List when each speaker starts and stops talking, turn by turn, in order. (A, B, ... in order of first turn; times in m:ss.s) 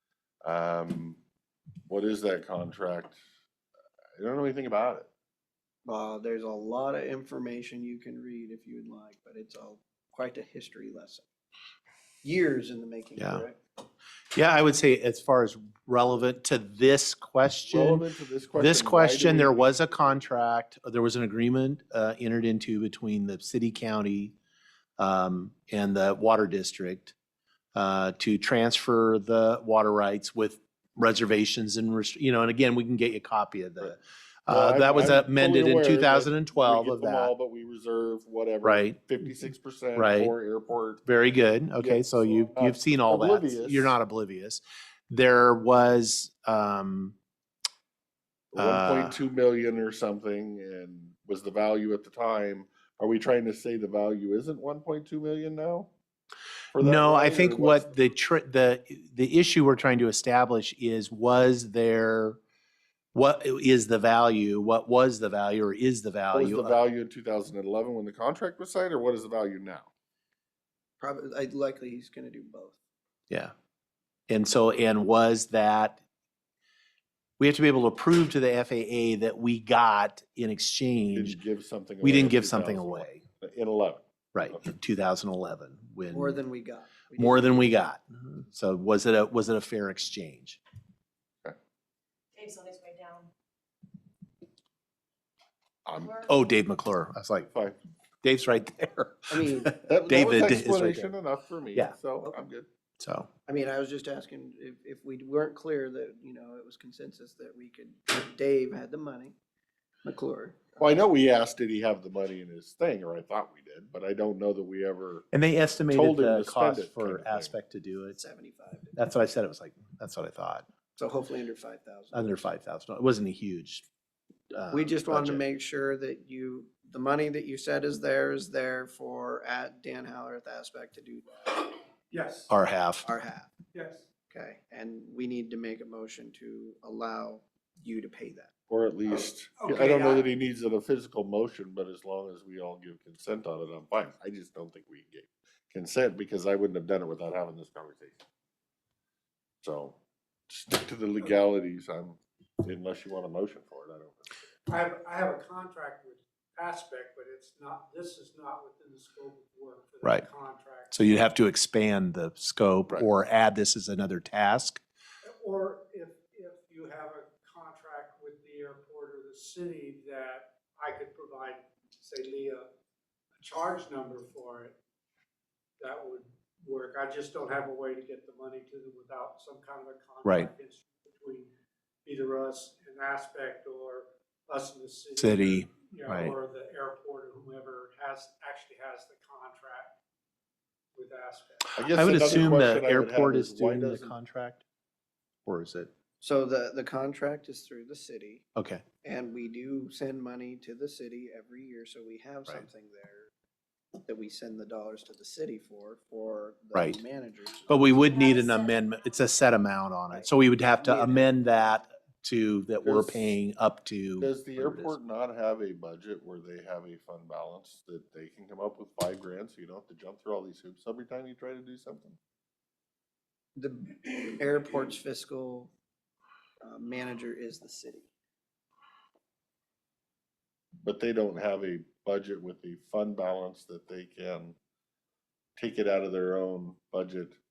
0:00.4-0:01.2 A
0:01.9-0:03.2 A
0:04.2-0:05.1 A
0:05.8-0:11.2 B
0:12.2-0:13.6 B
0:13.2-0:13.4 C
0:14.3-0:18.0 C
0:17.7-0:20.3 A
0:18.6-0:24.3 C
0:25.0-0:27.1 C
0:27.7-0:37.3 C
0:34.5-0:41.0 A
0:38.6-0:39.0 C
0:39.9-0:40.3 C
0:41.0-0:47.1 C
0:41.8-0:44.0 A
0:48.5-0:55.9 A
0:48.6-0:49.2 C
0:56.7-0:58.0 A
0:56.8-1:02.4 C
1:03.1-1:06.8 C
1:06.3-1:09.9 A
1:11.0-1:12.8 B
1:14.3-1:16.0 C
1:17.4-1:21.4 C
1:21.1-1:24.6 A
1:22.0-1:23.2 C
1:24.3-1:26.4 C
1:26.1-1:27.8 B
1:27.2-1:30.6 C
1:32.3-1:33.3 D
1:35.8-1:36.2 A
1:36.0-1:36.3 D
1:36.2-1:37.5 C
1:37.5-1:37.8 A
1:38.2-1:41.1 C
1:39.3-1:39.7 B
1:39.8-1:42.6 A
1:43.0-1:43.3 C
1:43.5-1:49.3 B
1:50.0-1:50.9 B
1:50.8-1:55.2 A
1:55.3-1:58.2 C
1:55.9-1:57.6 A
1:58.1-1:58.9 B
1:59.0-2:00.6 C
2:01.0-2:02.5 B
2:02.1-2:03.8 C
2:04.5-2:05.4 C
2:04.7-2:11.7 B
2:12.1-2:12.5 E
2:12.5-2:13.0 C
2:13.0-2:13.6 B
2:13.7-2:14.0 E
2:14.3-2:18.5 B
2:18.7-2:28.2 A
2:19.6-2:20.3 E
2:29.6-2:30.0 A
2:30.5-2:34.4 A
2:34.7-2:41.1 E
2:40.9-2:44.8 C
2:45.2-2:52.7 E
2:53.4-2:54.7 E
2:55.8-3:01.5 E
3:00.2-3:00.5 C
3:02.0-3:10.0 E
3:05.2-3:06.3 C
3:10.9-3:11.7 E
3:11.7-3:14.1 A
3:11.9-3:14.6 C
3:15.4-3:15.9 C
3:16.2-3:18.4 B
3:18.6-3:18.8 C
3:19.0-3:23.3 B
3:24.0-3:28.1 B
3:27.7-3:34.9 C
3:27.9-3:29.2 D
3:30.8-3:31.3 B
3:32.8-3:33.3 A
3:34.2-3:42.2 A
3:43.6-3:45.7 B
3:46.6-3:48.1 B
3:50.8-3:54.6 A
3:55.6-3:57.4 A